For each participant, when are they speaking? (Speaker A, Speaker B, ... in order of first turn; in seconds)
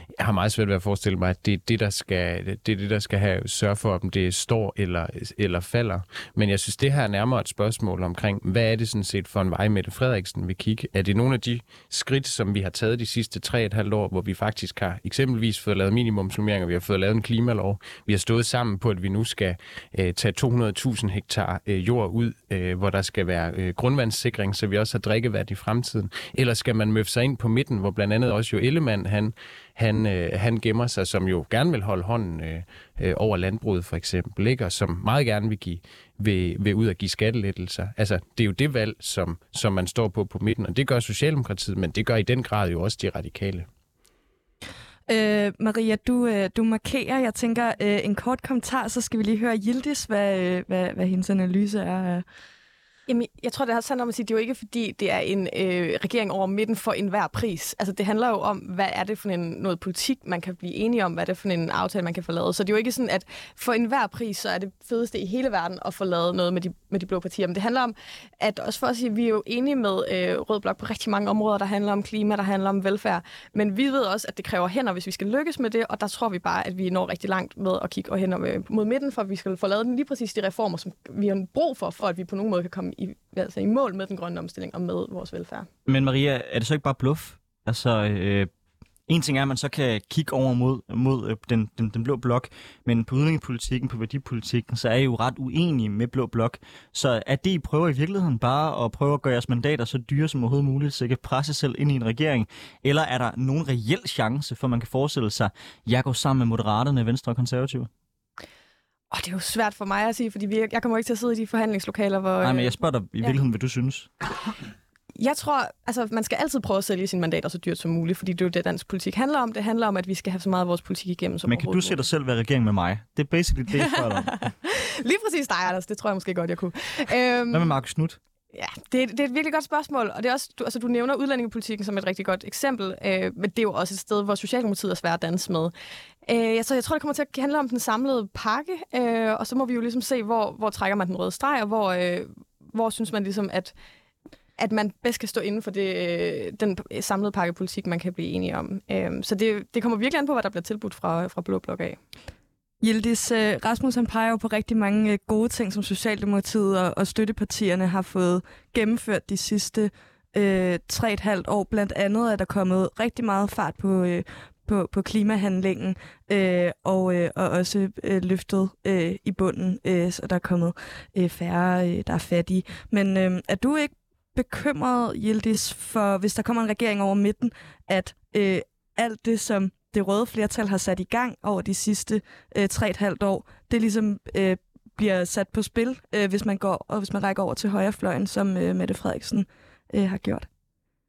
Speaker A: 0.2-43.7
Speaker B: 45.1-52.2, 152.8-190.5
Speaker C: 53.1-85.7, 109.1-112.8, 115.2-122.0, 123.8-127.7, 128.5-135.7, 136.2-143.7, 144.6-152.0
Speaker D: 85.9-88.5, 89.1-107.9, 112.4-114.1, 121.5-124.3, 127.5-128.2